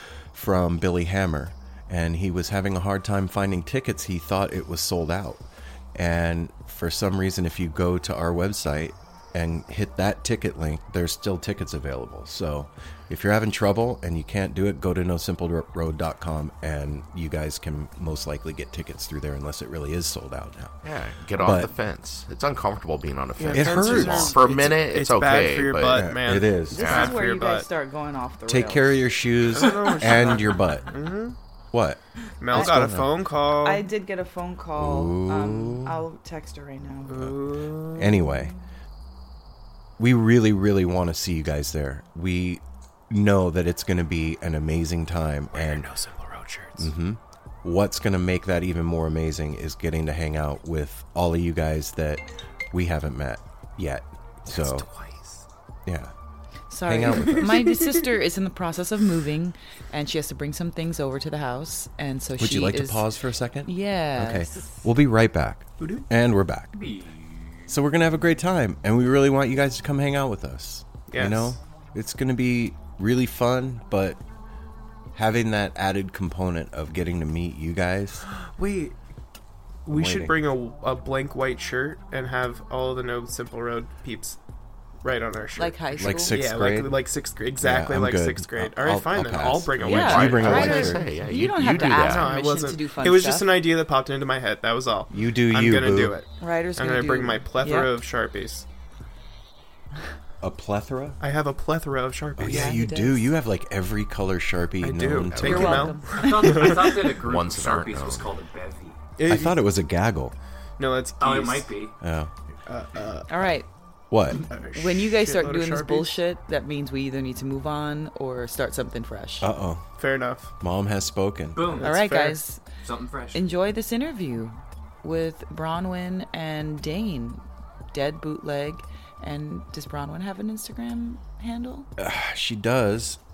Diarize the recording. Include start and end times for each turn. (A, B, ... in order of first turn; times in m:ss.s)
0:00.3-0:20.8 A
0:20.8-0:26.1 B
0:21.4-0:21.7 A
0:23.4-0:27.7 C
0:23.5-0:24.4 A
0:25.9-0:26.9 A
0:26.7-0:29.0 D
0:26.8-0:27.2 B
0:28.5-0:30.9 A
0:29.5-0:31.4 C
0:31.7-0:33.1 A
0:32.4-0:33.9 C
0:33.6-0:37.2 D
0:34.8-0:36.0 A
0:37.1-0:38.2 C
0:37.9-0:38.5 A
0:40.0-0:45.9 A
0:45.6-0:46.7 C
0:46.8-0:54.9 A
0:54.5-0:55.4 E
0:55.8-0:56.1 A
0:56.7-1:03.1 D
0:56.8-0:57.5 A
0:57.3-0:58.0 C
1:02.4-1:06.8 A
1:03.6-1:04.7 D
1:05.8-1:06.1 C
1:06.7-1:07.7 E
1:07.7-1:14.2 A
1:11.1-1:11.6 C
1:15.1-1:18.2 A
1:18.4-1:19.0 C
1:19.8-1:24.4 C
1:19.9-1:20.4 A
1:25.0-1:30.9 C
1:25.6-1:26.4 D
1:26.0-1:27.0 A
1:27.6-1:31.1 A
1:29.8-1:33.5 D
1:29.8-1:32.3 B
1:31.7-1:38.6 C
1:35.1-1:36.2 A
1:36.4-1:37.9 D
1:40.4-1:41.2 A
1:41.2-1:42.8 C
1:42.4-1:45.9 A
1:42.4-1:43.3 D
1:44.8-1:47.1 C
1:45.3-1:45.8 B
1:45.4-1:46.2 D
1:46.1-1:49.0 E
1:47.1-1:48.3 B
1:49.2-1:49.6 C
1:49.2-1:50.3 A
1:50.8-1:51.8 C
1:51.2-1:51.9 E
1:52.0-1:52.3 A
1:52.6-1:53.5 C
1:53.3-1:53.6 D
1:54.1-1:54.4 A
1:54.3-1:56.2 C
1:54.7-1:59.5 D
1:59.4-1:59.8 A
2:00.0-2:00.5 C
2:00.6-2:01.7 A
2:01.5-2:02.2 E
2:01.7-2:02.4 C
2:01.8-2:02.6 D
2:02.8-2:03.5 E
2:03.3-2:11.9 D
2:12.0-2:13.2 A